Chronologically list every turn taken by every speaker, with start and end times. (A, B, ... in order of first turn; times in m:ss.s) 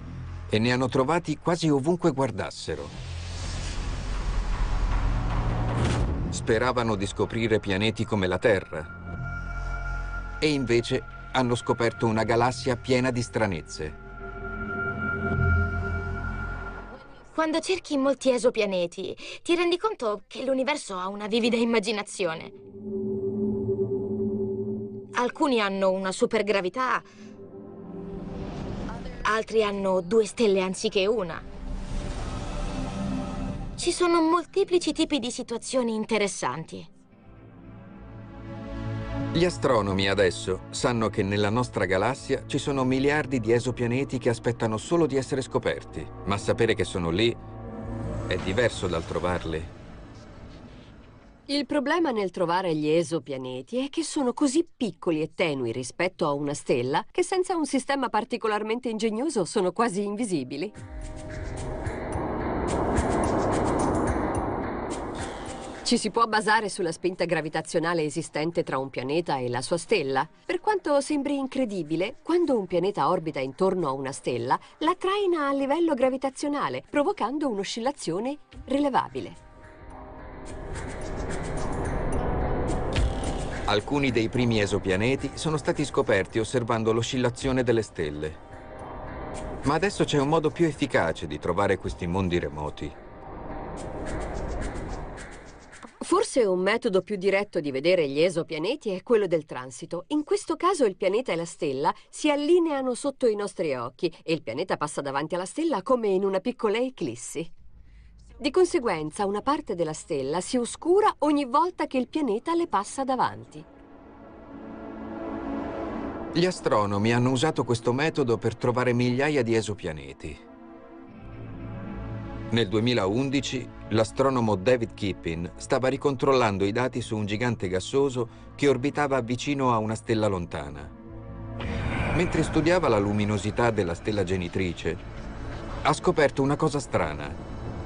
0:00.5-0:03.0 A
0:06.3-0:08.9 A
0:10.4-0:14.0 A
0:17.3-0:22.5 B
0:25.1-0:27.1 B
0:29.2-0:31.4 B
0:33.8-0:36.9 B
0:39.3-0:47.4 A
0:48.3-0:49.7 A
0:51.5-1:00.7 C
1:05.8-1:19.4 C
1:23.7-1:28.4 A
1:29.6-1:33.0 A
1:36.0-1:47.5 C
1:48.4-1:53.6 C
1:56.3-2:00.4 A
2:02.5-2:10.9 A
2:12.1-2:15.0 A
2:15.8-2:17.4 A